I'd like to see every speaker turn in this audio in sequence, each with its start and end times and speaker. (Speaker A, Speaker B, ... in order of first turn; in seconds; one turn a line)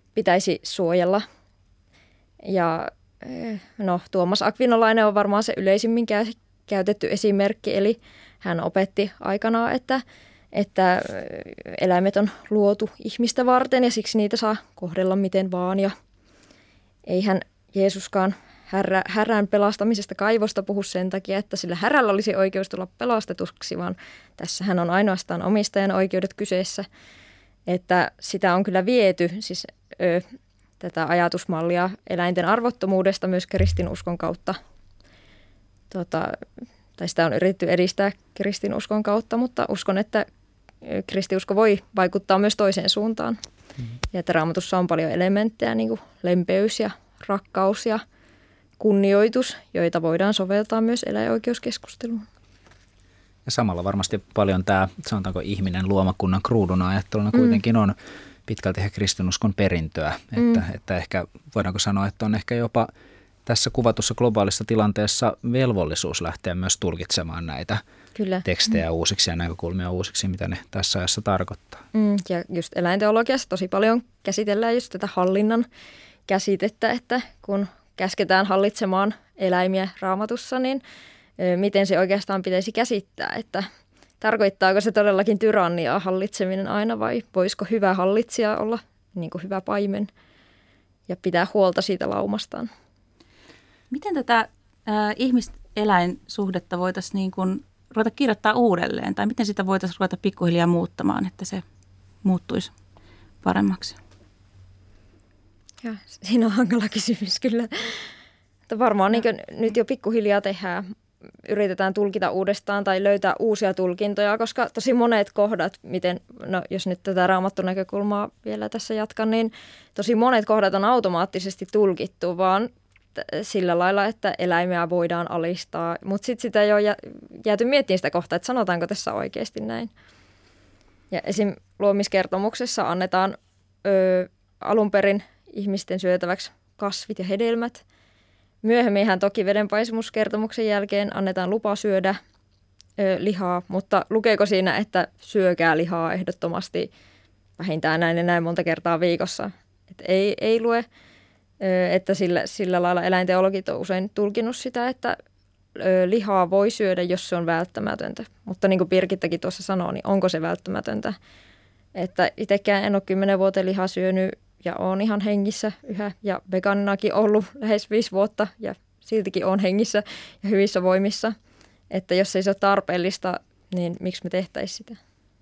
Speaker A: 0.1-1.2
Speaker A: 2.4-10.0
Speaker A: 10.5-15.9
Speaker A: 17.1-26.9
Speaker A: 27.7-30.2
Speaker A: 30.8-34.6
Speaker A: 35.9-36.4
Speaker A: 37.0-40.2
Speaker A: 40.8-43.4
Speaker A: 44.1-48.0
Speaker A: 48.8-52.2
Speaker B: 53.5-57.9
Speaker B: 58.5-62.9
Speaker B: 63.5-67.8
Speaker A: 68.2-68.4
Speaker B: 68.4-71.8
Speaker A: 71.9-75.7
Speaker A: 76.3-80.8
Speaker A: 81.4-83.7
Speaker A: 84.2-90.1
Speaker A: 91.1-92.7
Speaker C: 93.9-101.6
Speaker C: 102.2-102.7
Speaker C: 103.4-104.0
Speaker A: 105.8-108.0
Speaker A: 108.7-110.9
Speaker A: 111.5-129.9
Speaker A: 131.1-137.8
Speaker A: 138.6-142.2
Speaker A: 143.0-146.9
Speaker A: 147.6-150.8
Speaker A: 151.6-155.2
Speaker A: 155.8-161.2
Speaker A: 161.9-171.3
Speaker A: 171.9-175.0